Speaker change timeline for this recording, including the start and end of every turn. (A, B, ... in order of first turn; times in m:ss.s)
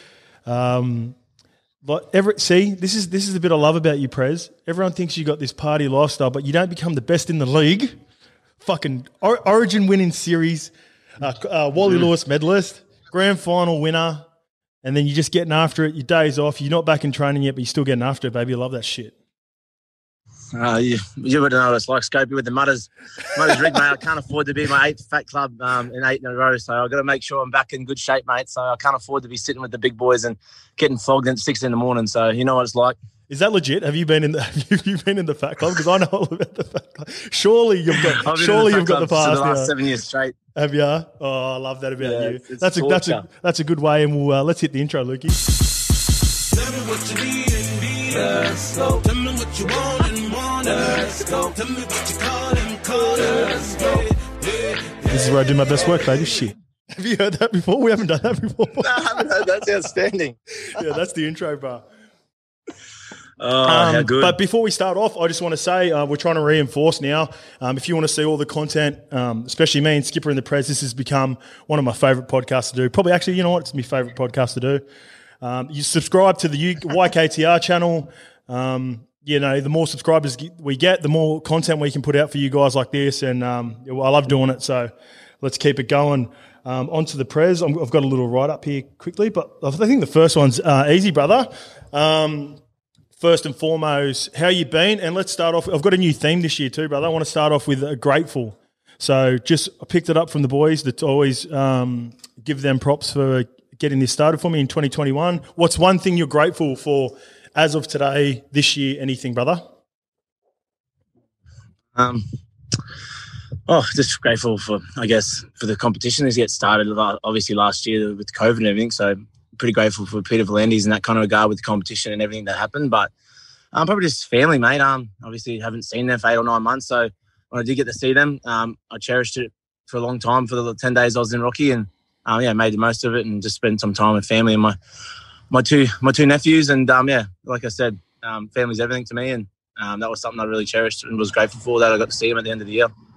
0:00.5-0:01.2 A
0:01.8-0:08.0 A
0:08.6-0:14.2 A
0:14.8-0:19.2 A
0:20.5-0:33.0 B
0:33.3-0:39.7 A
0:38.2-0:40.3 B
0:40.6-0:45.4 A
0:42.0-0:43.2 B
0:46.5-0:55.0 B
0:55.1-0:59.5 A
0:58.8-1:00.4 B
1:00.7-1:01.9 A
1:03.4-1:04.4 B
1:03.6-1:14.8 A
1:15.4-1:32.6 A
1:33.2-1:49.6 A
1:52.0-1:52.2 B
1:53.7-2:03.1 B
2:03.7-2:14.8 B
2:15.5-2:22.9 B